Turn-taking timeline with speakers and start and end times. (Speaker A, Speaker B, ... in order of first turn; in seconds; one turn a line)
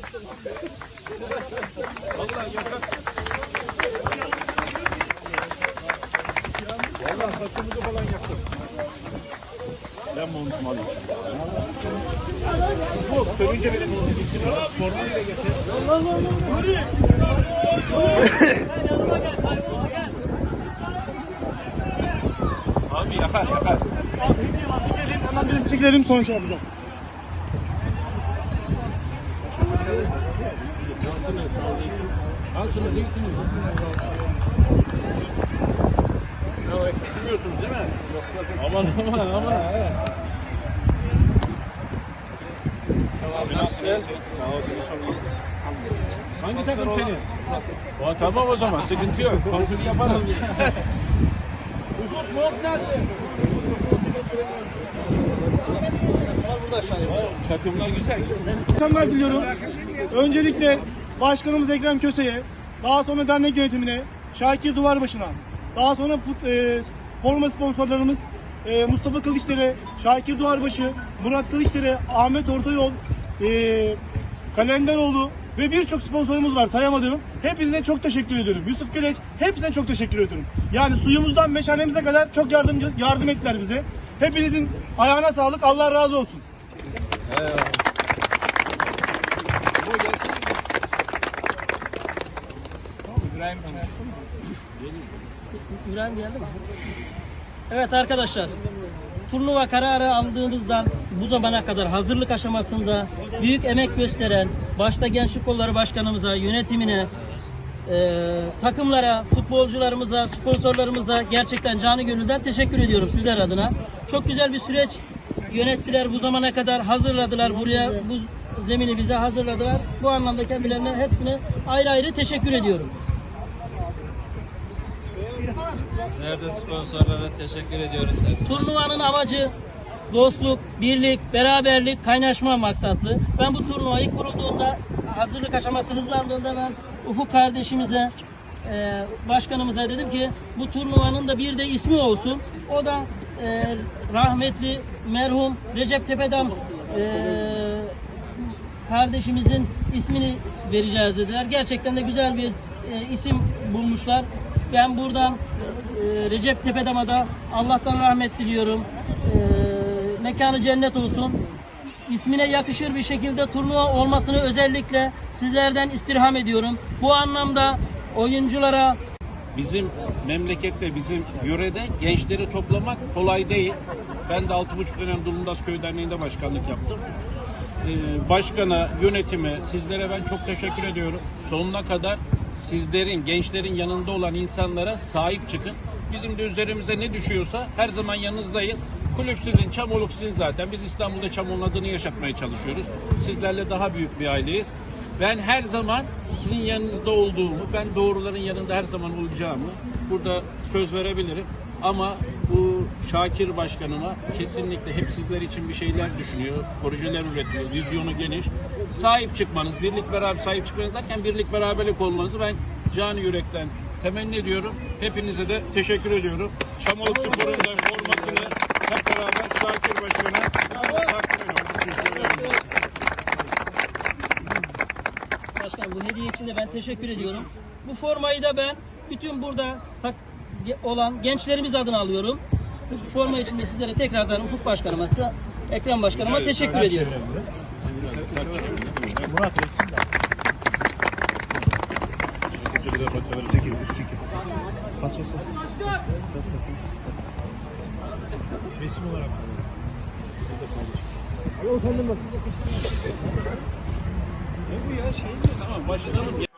Speaker A: 2.2-2.8
Speaker A: 7.0-8.4
Speaker A: 10.1-11.7
Speaker A: 13.0-15.7
Speaker A: 22.9-23.9
Speaker B: 24.2-26.6
Speaker A: 31.0-33.8
Speaker A: 36.6-38.0
Speaker A: 38.5-40.0
Speaker A: 43.2-45.2
Speaker A: 46.4-47.3
Speaker A: 48.0-50.7
Speaker A: 52.0-52.9
Speaker A: 57.0-58.4
Speaker B: 58.7-59.5
Speaker B: 60.1-74.0
Speaker B: 74.5-86.4
Speaker A: 87.2-87.8
Speaker A: 89.8-90.6
Speaker A: 93.1-94.0
Speaker A: 94.8-95.2
Speaker C: 95.7-96.6
Speaker C: 97.7-98.5
Speaker C: 99.3-107.1
Speaker C: 107.9-122.9
Speaker D: 125.9-128.7
Speaker C: 128.5-129.5
Speaker C: 130.1-138.1
Speaker C: 138.6-147.9
Speaker C: 148.8-161.4
Speaker C: 162.1-169.0
Speaker A: 169.5-177.1
Speaker A: 177.8-222.6
Speaker C: 225.6-237.2
Speaker A: 236.1-239.6
Speaker A: 242.6-244.1
Speaker A: 248.8-249.6
Speaker A: 250.5-251.0
Speaker A: 254.7-256.4